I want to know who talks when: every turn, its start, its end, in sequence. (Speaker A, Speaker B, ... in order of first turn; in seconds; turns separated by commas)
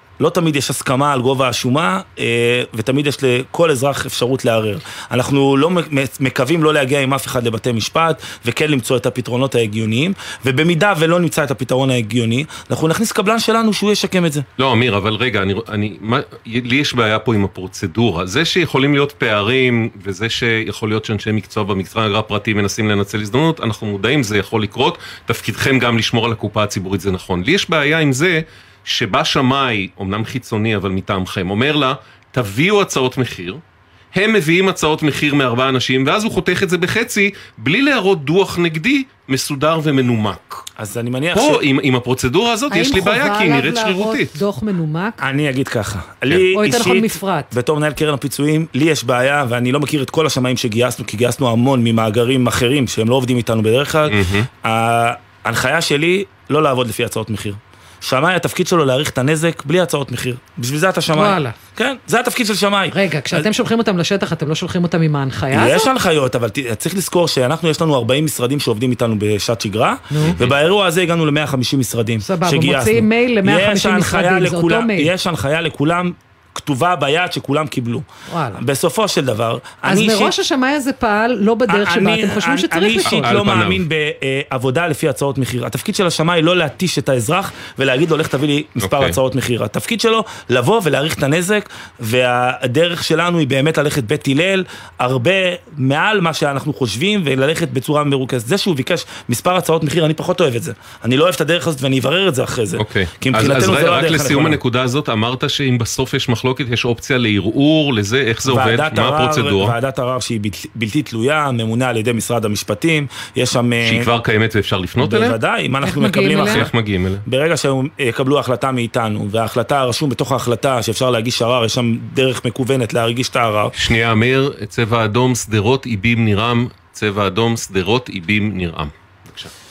Speaker A: 0.2-14.4, Speaker B: 14.6-33.6, Speaker B: 34.1-40.6, Speaker A: 40.8-41.6, Speaker B: 41.3-44.4, Speaker C: 42.7-45.2, Speaker A: 45.2-63.5, Speaker C: 46.5-47.5, Speaker B: 54.1-54.5, Speaker C: 61.1-61.5, Speaker C: 62.9-65.9, Speaker A: 65.5-80.3, Speaker C: 70.1-70.4, Speaker B: 70.2-70.5, Speaker C: 72.2-75.1, Speaker C: 78.3-78.6, Speaker C: 79.8-83.3, Speaker A: 81.7-104.6, Speaker B: 83.1-83.8, Speaker B: 88.8-89.2, Speaker B: 102.8-109.7, Speaker A: 108.5-114.1, Speaker B: 113.8-115.4, Speaker A: 115.0-116.7, Speaker C: 115.8-116.7, Speaker B: 116.5-117.2, Speaker A: 117.2-123.7, Speaker B: 123.8-129.5